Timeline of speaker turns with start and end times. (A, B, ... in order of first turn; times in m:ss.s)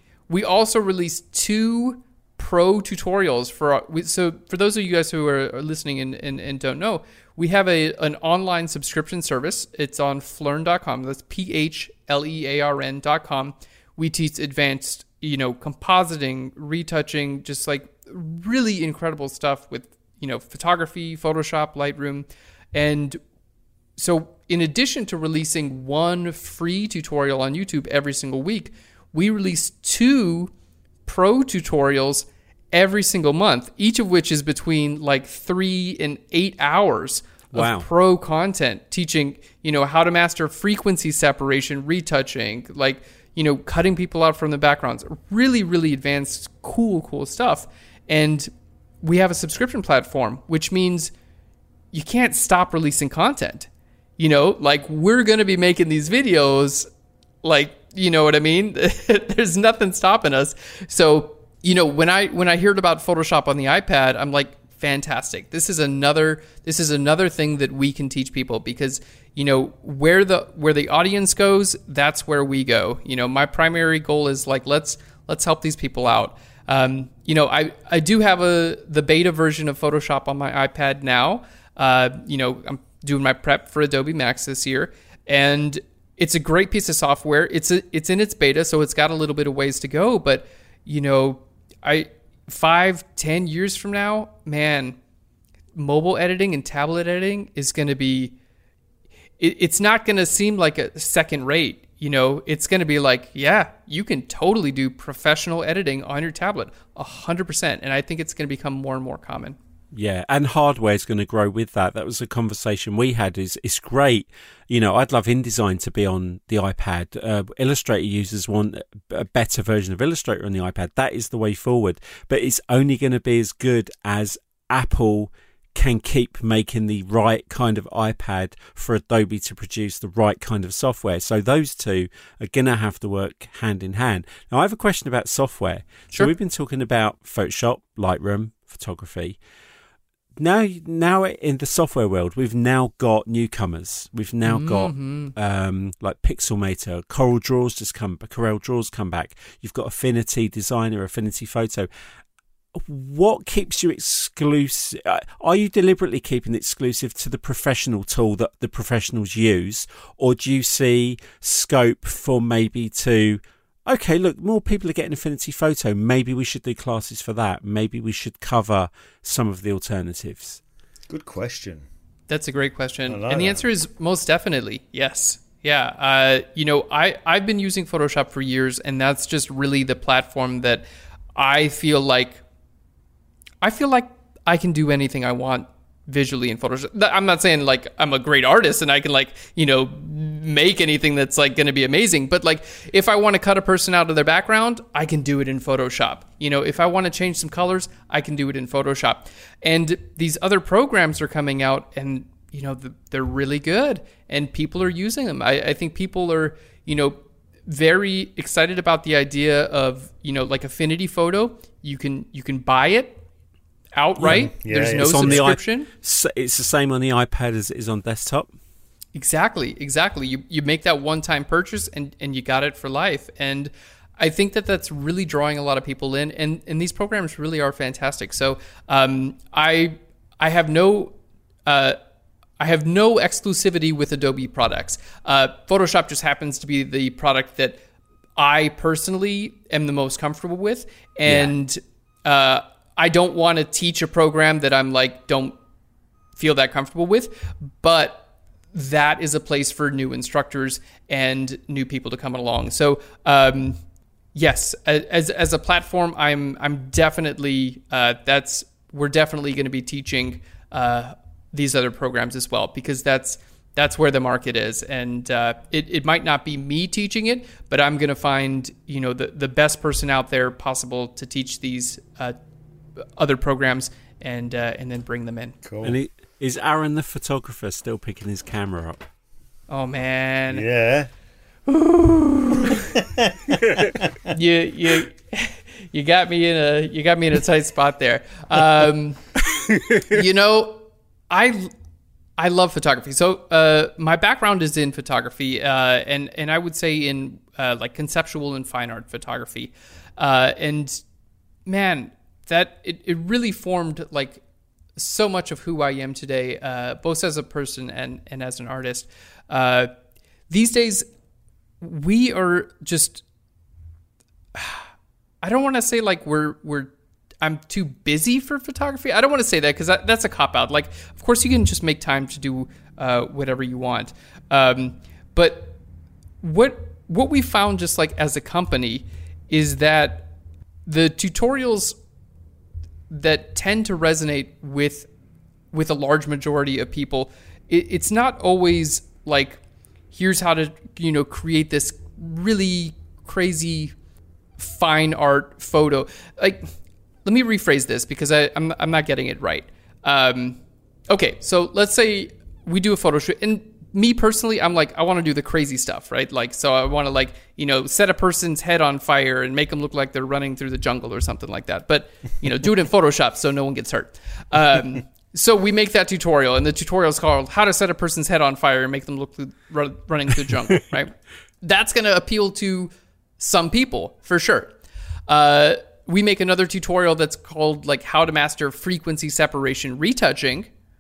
0:00.3-0:23.2 A
0:24.0-0:30.5 A
0:31.1-0:48.5 A
0:37.5-0:37.9 B
0:49.0-0:51.1 A
0:51.9-0:56.9 A
0:57.4-1:35.0 A
1:35.8-1:38.4 A
1:39.4-1:49.6 A
1:49.9-2:19.4 B
2:20.4-2:31.9 B
2:24.4-2:25.3 A
2:32.7-2:50.6 B
2:51.1-2:51.8 C
2:52.3-3:02.4 A
2:53.1-2:53.6 C
3:03.6-3:33.2 A
3:33.9-3:35.9 A
3:34.2-3:35.5 C
3:35.0-3:38.5 B
3:39.2-3:51.2 A
3:51.7-3:52.0 A
3:52.6-3:57.8 A
3:58.4-4:05.6 A
4:01.3-4:01.5 B
4:06.4-4:13.8 A
4:14.4-4:32.4 A
4:33.2-4:35.6 A
4:35.6-4:36.0 C
4:35.8-4:39.1 B
4:39.7-4:40.7 A
4:40.5-4:41.1 C
4:41.7-4:42.9 A
4:42.9-4:44.2 C
4:44.3-4:49.2 A
4:50.0-4:51.7 A
4:52.4-5:01.0 A
5:01.7-5:04.4 A
5:05.0-5:09.9 A
5:10.5-5:11.1 A
5:11.8-5:13.2 A
5:14.5-5:14.9 A
5:15.4-5:25.8 A
5:26.4-5:30.3 A
5:30.9-5:32.0 A
5:33.1-5:35.1 A
5:35.7-5:39.6 A
5:40.1-5:43.9 A
5:44.6-5:46.7 A
5:47.2-6:14.8 A
6:15.3-6:20.7 A